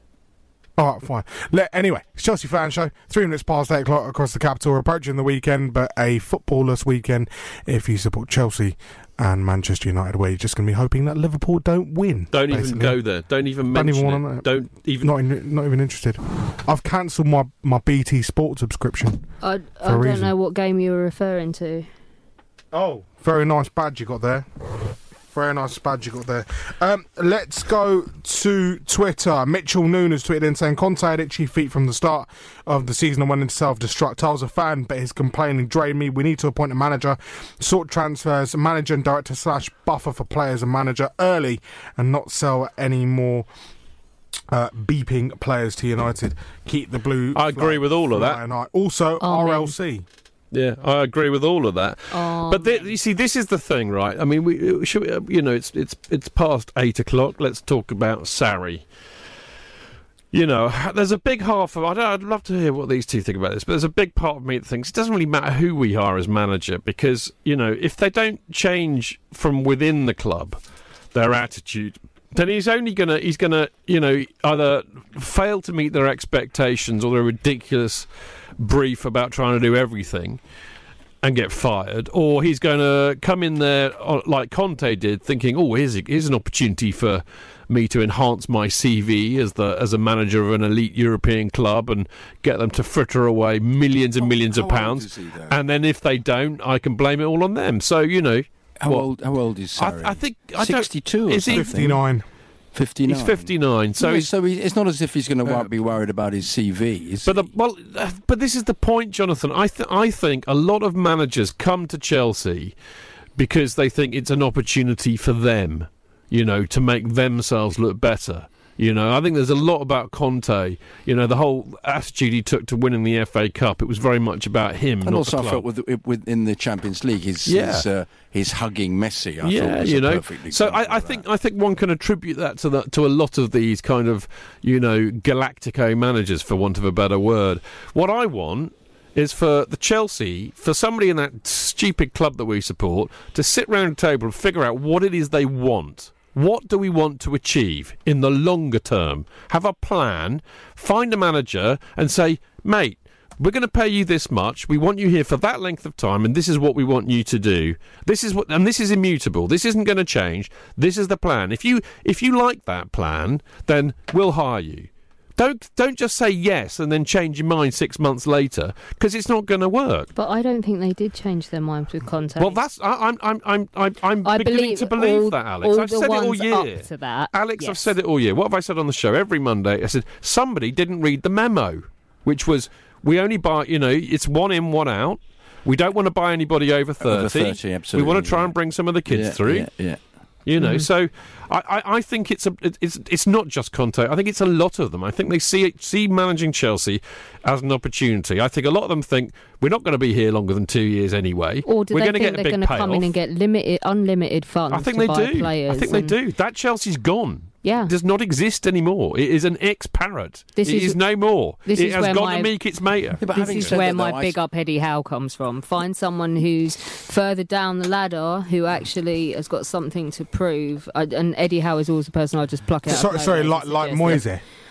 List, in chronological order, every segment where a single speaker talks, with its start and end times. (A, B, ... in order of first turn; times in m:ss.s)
0:00.8-0:13.0 A
0:12.3-0:15.1 B
0:13.7-0:19.2 A
0:19.4-0:21.9 C
0:19.8-0:20.3 A
0:22.7-0:24.5 A
0:25.3-0:43.5 A
0:44.5-0:50.0 A
0:47.3-0:48.4 B
0:49.2-0:49.7 C
0:50.5-0:58.8 B
0:52.1-0:52.9 C
1:00.3-1:10.6 B
1:11.1-1:18.1 B
1:18.6-1:20.4 B
1:21.2-1:39.1 B
1:34.2-1:35.6 D
1:38.8-1:42.0 D
1:39.8-1:41.7 B
1:41.5-1:42.2 A
1:42.7-1:47.5 D
1:43.1-1:44.3 B
1:45.4-1:45.7 B
1:47.2-1:52.7 B
1:53.4-2:05.6 B
2:05.0-2:11.2 D
2:07.4-2:07.8 B
2:09.4-2:50.1 B
2:50.1-2:52.6 C
2:52.4-3:09.7 B
2:54.2-2:57.9 C
3:07.0-3:08.5 D
3:09.1-3:10.0 D
3:10.4-3:23.1 B
3:10.6-3:10.8 C
3:21.6-3:26.1 C
3:24.7-3:33.8 B
3:27.6-3:27.9 C
3:30.6-3:31.0 C
3:31.6-3:32.5 C
3:33.2-3:34.4 D
3:33.3-3:44.2 C
3:42.8-3:44.4 A